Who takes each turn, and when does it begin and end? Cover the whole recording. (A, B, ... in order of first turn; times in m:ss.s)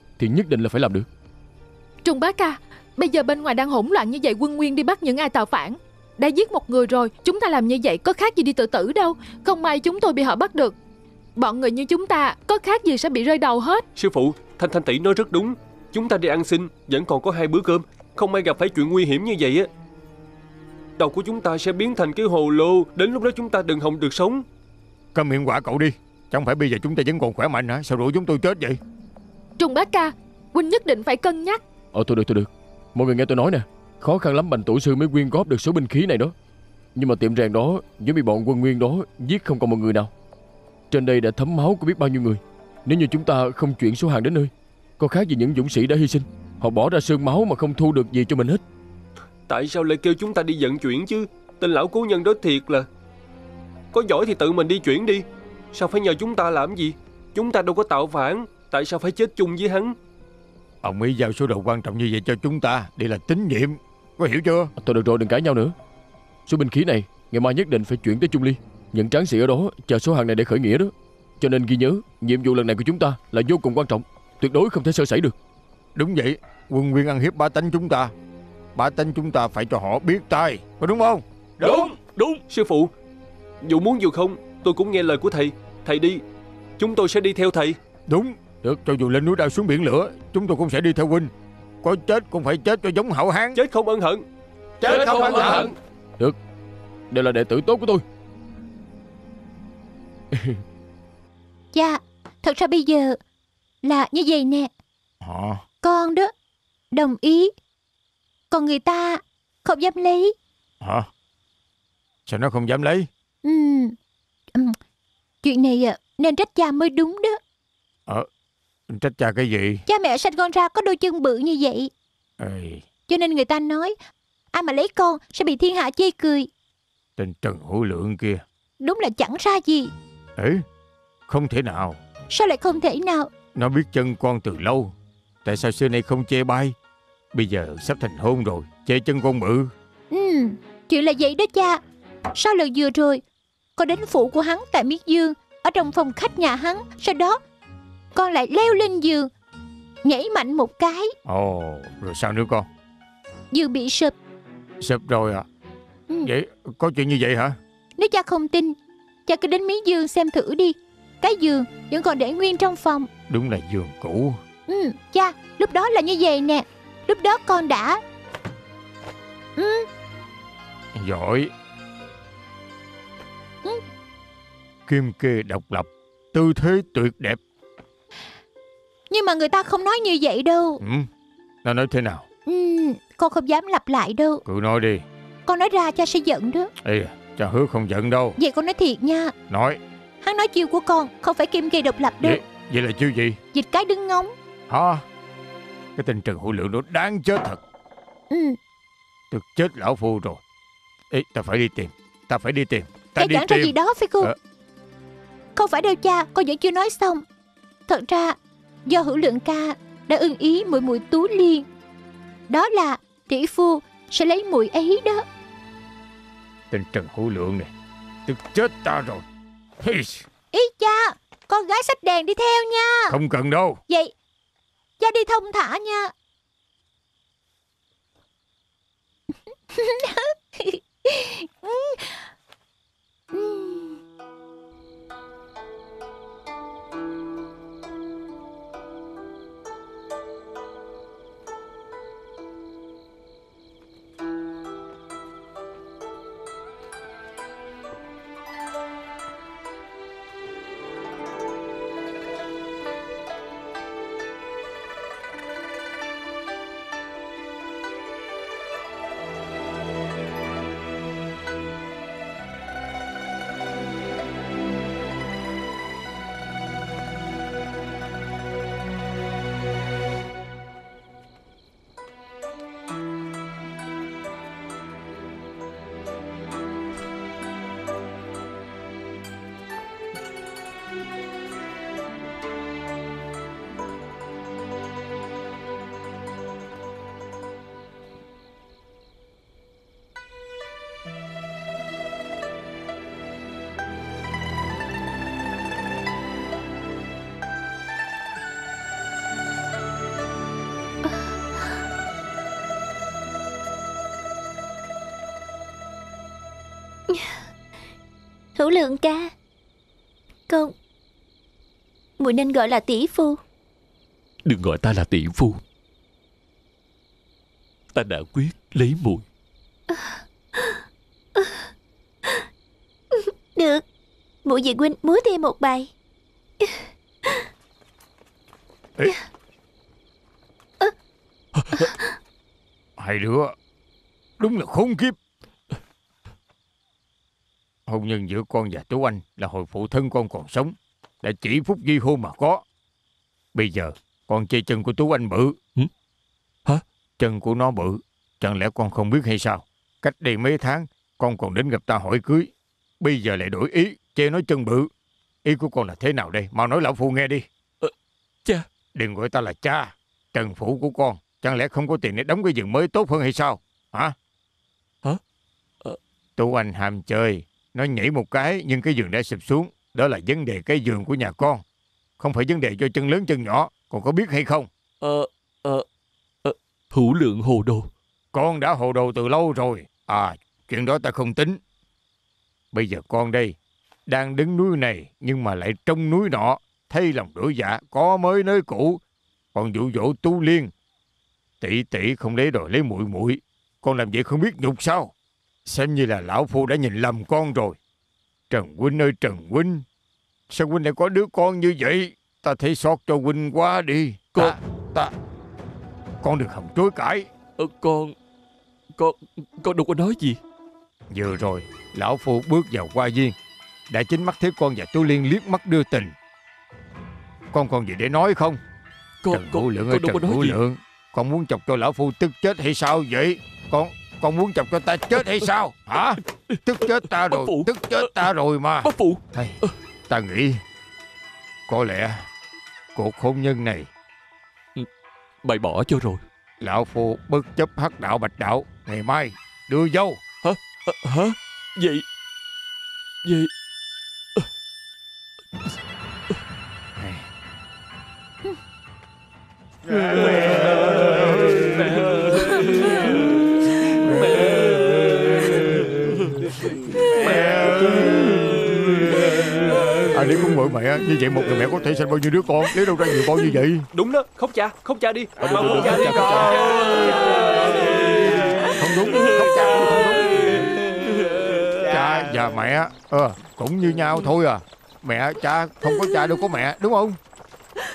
0:00.2-0:01.1 A
0:02.0-0:10.8 B
0:11.4-0:13.8 B
0:14.0-0:19.7 C
0:21.0-0:24.4 C
0:25.1-0:28.8 D
0:29.6-0:31.6 B
0:31.9-0:36.3 A
0:36.9-0:40.1 A
0:40.9-0:48.6 A
0:49.5-0:52.9 C
0:53.9-1:00.0 C
1:00.8-1:04.7 D
1:04.8-1:05.7 A
1:06.5-1:15.3 A
1:16.0-1:18.1 D
1:18.7-1:21.9 D
1:21.6-1:22.4 E
1:22.5-1:22.9 C
1:23.6-1:26.2 C
1:26.8-1:27.8 C
1:28.1-1:31.3 D
1:31.8-1:33.6 D
1:33.5-1:34.2 C
1:34.8-1:35.7 D
1:34.8-1:36.4 A
1:35.0-1:35.6 E
1:35.2-1:35.7 C
1:37.1-1:38.0 A
1:40.3-1:40.6 A
1:41.7-1:43.2 F
1:43.8-1:44.7 F
1:45.2-1:45.6 D
1:45.8-1:46.3 F
1:46.9-1:47.5 F
1:48.5-1:50.3 F
1:50.8-1:51.1 D
1:52.3-1:53.1 D
1:53.4-1:53.9 F
1:55.4-1:57.4 F
1:58.9-1:59.8 D
1:59.9-2:01.9 F
2:02.4-2:02.9 D
2:03.1-2:04.0 F
2:04.5-2:06.5 F
2:07.2-2:08.4 D
2:08.8-2:09.9 F
2:10.4-2:10.6 D
2:11.3-2:12.0 D
2:12.3-2:13.3 F
2:13.5-2:14.9 D
2:15.4-2:16.8 D
2:17.3-2:19.7 D
2:20.1-2:21.8 F
2:22.3-2:23.2 F
2:23.8-2:27.4 F
2:28.1-2:29.3 F
2:30.0-2:31.1 F
2:31.2-2:32.7 D
2:33.5-2:34.1 F
2:34.8-2:35.4 D
2:36.2-2:37.6 D
2:38.0-2:38.8 F
2:39.3-2:43.1 F
2:43.3-2:44.4 D
2:44.7-2:48.0 F
2:49.6-2:49.9 F
2:50.9-2:51.5 D
2:54.9-2:57.4 D
2:59.1-3:00.8 F
3:00.8-3:01.1 D
3:01.6-3:02.2 D
3:02.4-3:04.4 F
3:04.4-3:05.0 D
3:05.4-3:06.7 F
3:06.8-3:08.4 D
3:08.4-3:09.3 F
3:09.5-3:09.8 D
3:10.2-3:12.4 F
3:12.2-3:13.4 D
3:13.5-3:14.3 F
3:14.7-3:15.0 D
3:16.0-3:17.6 D
3:18.3-3:18.6 F
3:19.3-3:20.4 D
3:21.1-3:24.4 D
3:23.1-3:24.3 F
3:25.6-3:27.2 F
3:27.9-3:31.6 F
3:32.5-3:35.2 F
3:36.7-3:37.7 D
3:38.2-3:39.2 D
3:39.8-3:40.3 D
3:40.5-3:43.2 F
3:43.1-3:43.8 D
3:45.0-3:46.1 F
3:49.7-3:52.3 F
3:53.3-3:54.0 F
5:07.1-5:07.4 G
5:08.6-5:09.3 G
5:10.5-5:10.7 G
5:12.2-5:13.4 G
5:14.4-5:15.6 E
5:17.9-5:19.2 E
5:19.9-5:20.8 G
5:21.4-5:21.6 G
5:23.1-5:23.8 G
5:24.4-5:25.9 G
5:26.6-5:27.4 G
5:31.6-5:31.9 E
5:31.7-5:32.1 G
5:33.0-5:33.5 D
5:34.4-5:35.2 D
5:37.9-5:42.6 D
5:43.5-5:45.6 D
5:47.2-5:54.9 D
5:55.4-5:57.4 D
5:58.9-6:04.1 D
6:06.4-6:11.6 D
6:12.2-6:14.7 D
6:15.0-6:15.8 E
6:16.4-6:17.9 E
6:18.3-6:21.6 D
6:22.7-6:23.6 D
6:24.1-6:29.0 D
6:29.5-6:30.7 D
6:31.6-6:35.1 D
6:35.6-6:37.8 D
6:38.5-6:39.8 D
6:40.5-6:45.1 D
6:46.2-6:47.3 D
6:47.6-6:48.1 E
6:49.0-6:50.4 E
6:51.1-6:53.4 D
6:53.9-6:56.1 D
6:57.5-6:58.6 D
6:59.2-7:00.6 E
6:59.3-7:09.6 D
7:06.5-7:08.1 E
7:08.8-7:09.7 E
7:10.1-7:10.6 D
7:11.7-7:12.3 D
7:12.9-7:13.9 D
7:15.4-7:16.2 E
7:16.6-7:20.2 D
7:20.4-7:22.0 E
7:23.2-7:23.5 E
7:27.0-7:27.2 D
7:30.1-7:32.0 D
7:30.2-7:31.0 C
7:31.9-7:32.7 C
7:34.0-7:34.5 D
7:34.2-7:34.5 C
7:37.1-7:37.7 C
7:37.2-7:38.7 D
7:40.1-7:43.9 D
7:43.9-7:48.7 C
7:45.4-7:46.6 A
7:45.6-7:50.7 D
7:51.8-7:57.2 D